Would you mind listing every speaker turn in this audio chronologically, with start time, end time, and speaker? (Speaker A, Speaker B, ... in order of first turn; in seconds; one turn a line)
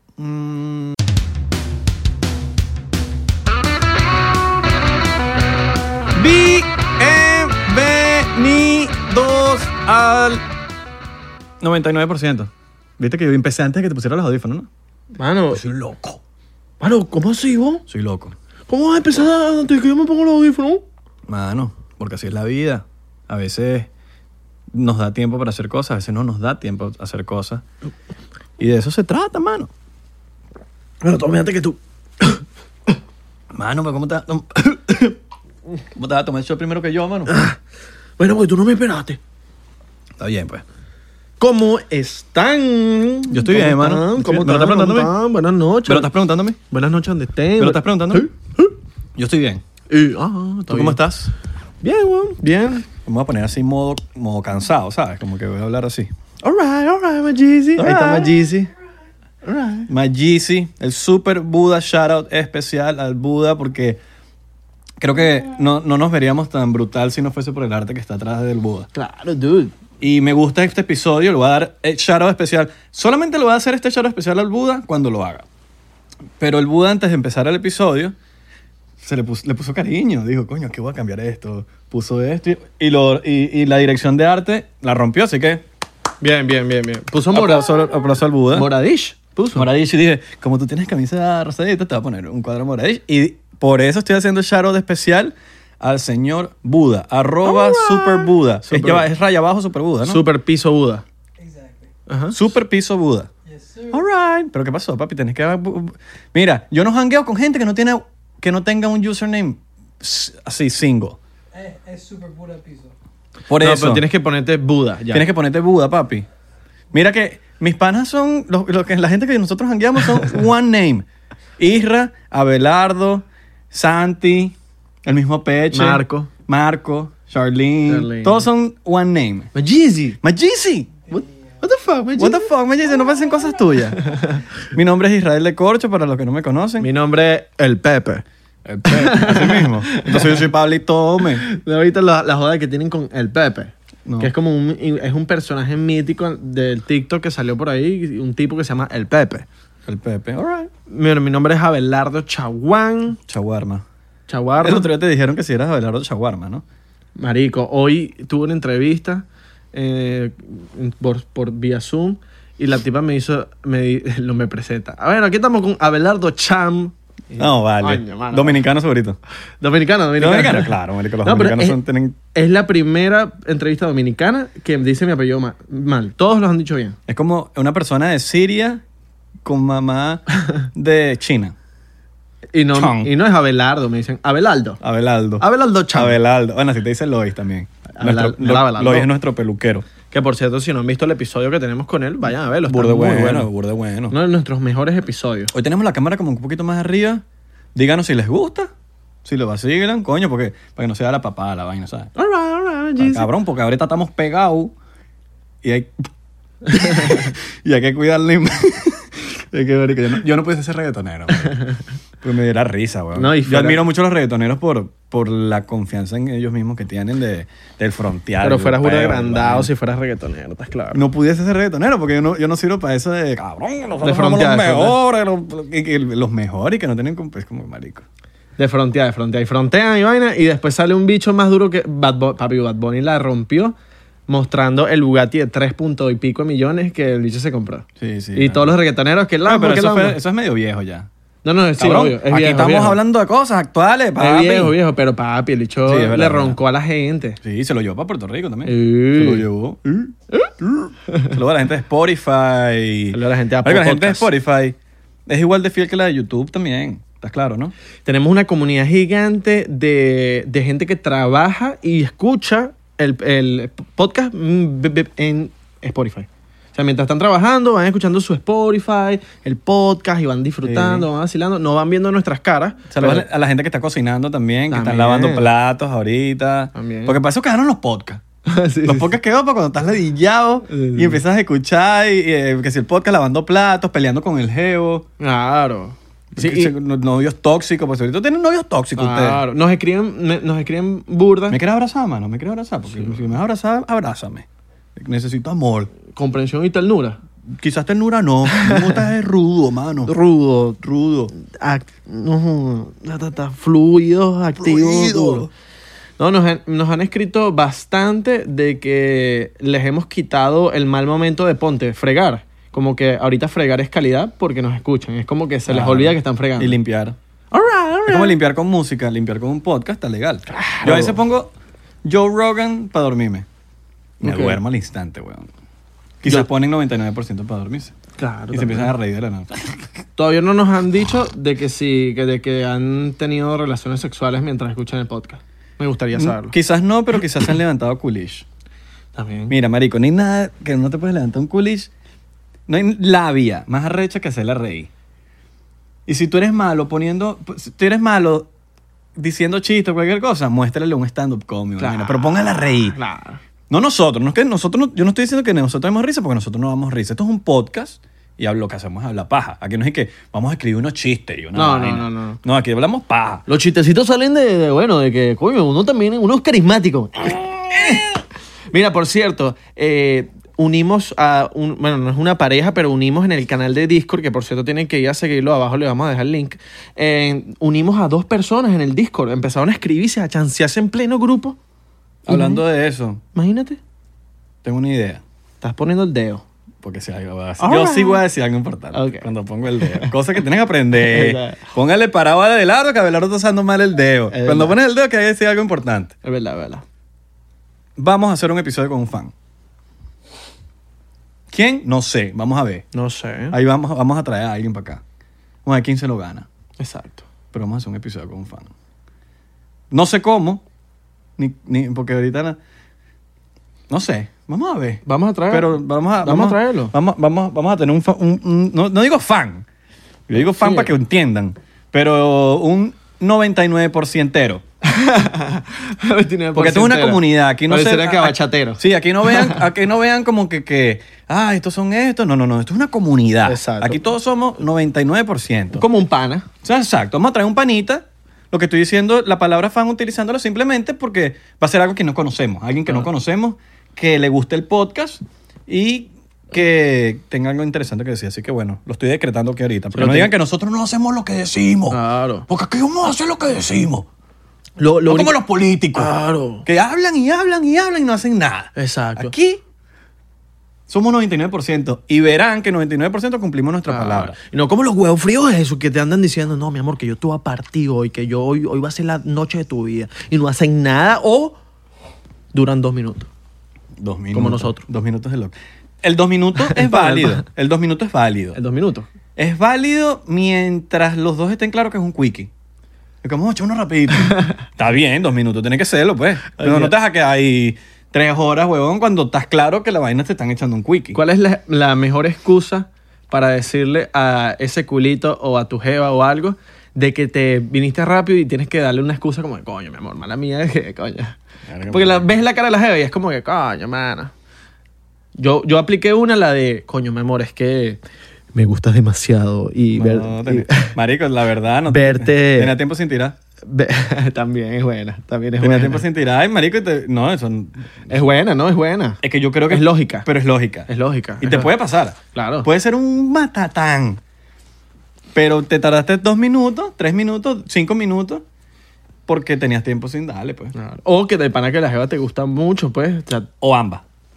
Speaker A: 0.2-1.0
Speaker A: 6.2-10.4
Speaker A: 11.6-14.7
Speaker B: 15.2-15.6
Speaker A: 15.5-16.2
Speaker B: 16.8-17.8
Speaker A: 17.9-18.4
Speaker B: 18.7-20.8
Speaker A: 21.3-23.9
Speaker A: 24.7-27.6
Speaker A: 28.6-29.7
Speaker B: 31.0-32.5
Speaker A: 33.5-35.2
Speaker A: 36.0-37.4
Speaker B: 37.3-37.6
Speaker B: 38.2-39.2
Speaker A: 40.2-40.6
Speaker B: 41.4-46.1
Speaker A: 43.3-45.1
Speaker A: 45.9-46.6
Speaker B: 46.7-48.7
Speaker A: 47.6-48.3
Speaker A: 49.2-49.6
Speaker B: 49.9-51.0
Speaker A: 50.7-51.3
Speaker B: 51.8-52.9
Speaker A: 53.0-56.1
Speaker B: 56.4-58.7
Speaker A: 57.8-58.6
Speaker B: 59.4-59.9
Speaker A: 59.9-64.0
Speaker A: 65.0-68.9
Speaker B: 68.9-69.8
Speaker A: 70.0-75.5
Speaker A: 76.4-78.2
Speaker A: 79.0-85.6
Speaker B: 86.2-87.8
Speaker A: 87.3-88.7
Speaker B: 88.5-89.7
Speaker A: 89.5-100.2
Speaker B: 97.4-99.1
Speaker B: 100.0-101.0
Speaker C: 101.4-101.9
Speaker B: 102.1-102.4
Speaker A: 102.3-103.3
Speaker C: 103.5-104.0
Speaker A: 103.9-111.2
Speaker C: 111.5-112.9
Speaker A: 113.5-114.0
Speaker B: 113.6-115.3
Speaker A: 115.1-116.3
Speaker A: 116.9-121.0
Speaker A: 121.6-129.5
Speaker B: 125.7-126.3
Speaker B: 127.9-128.5
Speaker B: 129.5-130.2
Speaker A: 130.2-131.0
Speaker B: 131.1-132.5
Speaker A: 132.2-134.2
Speaker B: 134.0-134.4
Speaker A: 134.7-136.9
Speaker B: 136.8-138.2
Speaker A: 138.7-141.4
Speaker B: 138.9-140.5
Speaker B: 141.2-149.5
Speaker A: 144.1-144.3
Speaker A: 149.9-150.7
Speaker B: 150.9-153.2
Speaker A: 153.3-153.8
Speaker B: 154.3-154.9
Speaker A: 154.6-156.6
Speaker B: 157.2-168.7
Speaker A: 167.4-169.2
Speaker B: 169.6-171.8
Speaker A: 170.2-172.2
Speaker B: 172.3-177.0
Speaker A: 177.1-178.8
Speaker A: 179.4-181.6
Speaker B: 182.5-184.8
Speaker A: 182.7-183.1
Speaker A: 184.8-189.9
Speaker B: 185.4-186.2
Speaker B: 187.9-189.1
Speaker B: 190.1-193.5
Speaker A: 192.7-194.2
Speaker B: 194.1-195.5
Speaker A: 195.5-197.2
Speaker A: 197.8-198.7
Speaker A: 199.2-202.2
Speaker B: 202.2-203.3
Speaker A: 203.0-204.7
Speaker A: 205.6-205.9
Speaker A: 206.7-211.7
Speaker A: 212.2-219.7
Speaker B: 213.2-213.8
Speaker B: 218.4-221.0
Speaker A: 220.9-228.1
Speaker B: 224.0-225.0
Speaker B: 228.6-233.8
Speaker B: 234.3-240.2
Speaker A: 238.0-238.8
Speaker A: 239.4-241.1
Speaker B: 241.4-243.0
Speaker A: 241.8-244.8
Speaker B: 244.2-247.4
Speaker A: 245.8-246.6
Speaker A: 247.4-257.7
Speaker B: 248.7-249.5
Speaker B: 253.1-254.3
Speaker B: 258.1-273.3
Speaker A: 270.6-271.1
Speaker A: 272.9-278.2
Speaker B: 274.7-275.5
Speaker B: 276.8-277.2
Speaker B: 278.5-279.2
Speaker A: 278.8-285.1
Speaker B: 280.7-281.2
Speaker B: 285.2-286.7
Speaker A: 286.4-289.4
Speaker B: 289.0-291.6
Speaker A: 291.5-295.9
Speaker B: 292.9-293.3
Speaker B: 296.1-297.2
Speaker A: 297.5-300.1
Speaker B: 298.5-299.0
Speaker B: 300.1-300.8
Speaker A: 300.8-301.3
Speaker B: 301.4-305.5
Speaker A: 304.6-305.5
Speaker B: 306.2-316.8
Speaker A: 315.7-317.2
Speaker B: 317.5-318.4
Speaker A: 318.1-321.5
Speaker B: 320.5-321.2
Speaker A: 322.0-323.5
Speaker B: 324.2-324.6
Speaker A: 324.2-325.5
Speaker A: 326.2-328.0
Speaker B: 328.2-328.9
Speaker A: 328.5-329.8
Speaker B: 330.2-336.6
Speaker A: 336.1-338.5
Speaker B: 339.1-339.5
Speaker A: 339.5-341.9
Speaker A: 342.7-344.9
Speaker A: 346.1-348.5
Speaker A: 349.2-353.0
Speaker B: 351.8-353.4
Speaker A: 353.7-363.4
Speaker B: 361.6-362.4
Speaker B: 363.5-381.6
Speaker A: 382.3-383.2
Speaker B: 382.3-382.6
Speaker B: 383.3-383.8
Speaker A: 384.6-385.2
Speaker B: 385.6-386.4
Speaker A: 386.8-396.2
Speaker B: 387.6-388.2
Speaker B: 388.9-390.2
Speaker B: 390.9-391.7
Speaker B: 394.3-394.8
Speaker B: 396.2-396.8
Speaker A: 398.0-399.3
Speaker A: 401.5-402.9
Speaker B: 402.9-403.6
Speaker A: 403.5-405.0
Speaker A: 405.6-406.5
Speaker B: 406.8-407.3
Speaker A: 407.5-408.7
Speaker A: 409.9-410.6
Speaker A: 411.4-412.6
Speaker A: 413.9-419.7
Speaker B: 415.1-416.9
Speaker A: 420.3-424.6
Speaker B: 420.3-420.9
Speaker B: 424.8-429.6
Speaker A: 426.6-435.8
Speaker B: 433.5-434.0
Speaker B: 435.7-436.5
Speaker A: 436.6-454.1
Speaker B: 449.9-450.3
Speaker B: 451.9-452.5
Speaker B: 454.8-455.4
Speaker A: 455.1-459.6
Speaker B: 455.9-456.7
Speaker B: 458.8-459.3
Speaker A: 460.9-464.4
Speaker B: 463.9-471.6
Speaker B: 472.5-473.3
Speaker A: 474.0-478.6
Speaker B: 474.3-474.8
Speaker B: 476.6-477.4
Speaker B: 478.6-479.1
Speaker A: 479.4-482.5
Speaker A: 483.2-491.2
Speaker B: 486.6-486.9
Speaker B: 491.1-504.3
Speaker A: 501.7-502.3
Speaker B: 505.4-508.0
Speaker B: 508.5-510.9
Speaker A: 509.9-513.4
Speaker B: 511.9-512.8
Speaker B: 513.6-516.0
Speaker A: 515.6-518.2
Speaker B: 518.1-520.3
Speaker A: 519.2-524.2
Speaker B: 520.9-521.7
Speaker B: 522.3-522.7
Speaker A: 525.4-528.4
Speaker A: 529.3-530.7
Speaker B: 530.7-533.5
Speaker A: 533.6-534.0